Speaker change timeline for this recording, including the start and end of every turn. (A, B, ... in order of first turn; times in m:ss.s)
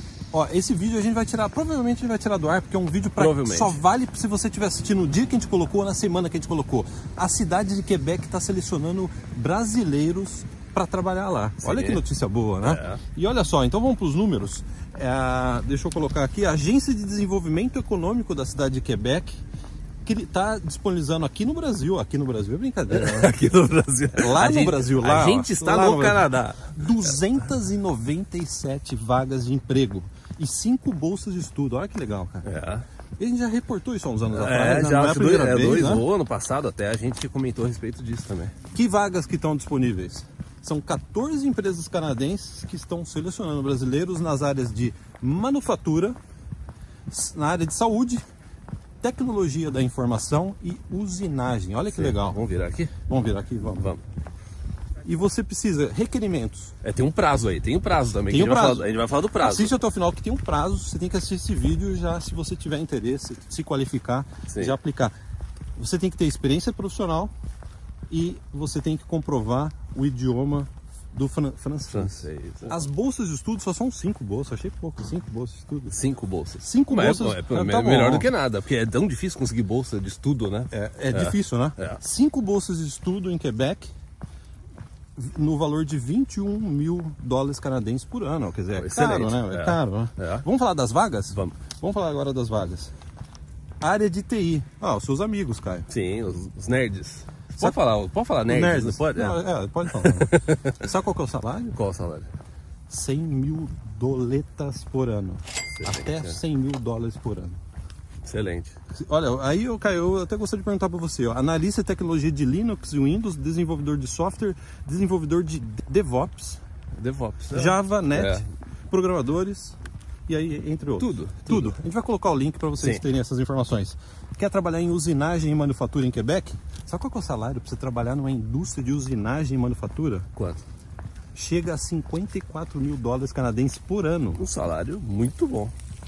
0:00.3-0:19.4 A
0:03.2-0:03.8 B
0:11.6-0:12.0 B
0:12.6-0:13.0 B
0:20.0-0:23.4 A
0:22.9-0:26.9 B
0:24.1-0:32.5 A
0:32.4-0:32.8 B
0:33.2-0:36.1 A
0:34.3-0:38.5 B
0:38.7-0:46.2 A
0:47.1-0:48.2 A
0:49.0-0:52.4 A
0:51.9-0:52.9 B
0:53.1-0:54.0 A
0:55.0-0:56.7 A
0:56.8-0:59.8 B
0:58.3-0:58.9 A
0:59.4-1:05.1 A
1:04.5-1:04.8 B
1:05.8-1:07.3 A
1:08.1-1:16.0 A
1:11.9-1:12.9 B
1:15.9-1:22.0 B
1:16.6-1:18.3 A
1:20.7-1:23.9 A
1:25.2-1:32.9 A
1:28.7-1:30.4 B
1:33.8-1:35.9 A
1:35.9-1:40.8 B
1:38.4-1:41.8 A
1:41.7-1:42.3 B
1:42.9-1:47.6 A
1:45.8-1:46.4 B
1:48.2-1:48.7 B
1:48.9-1:56.6 A
1:57.0-1:58.4 B
1:57.5-1:59.8 A
2:00.3-2:10.3 A
2:01.0-2:01.8 B
2:02.8-2:03.0 B
2:10.4-2:10.6 B
2:11.3-2:14.4 A
2:14.4-2:15.7 B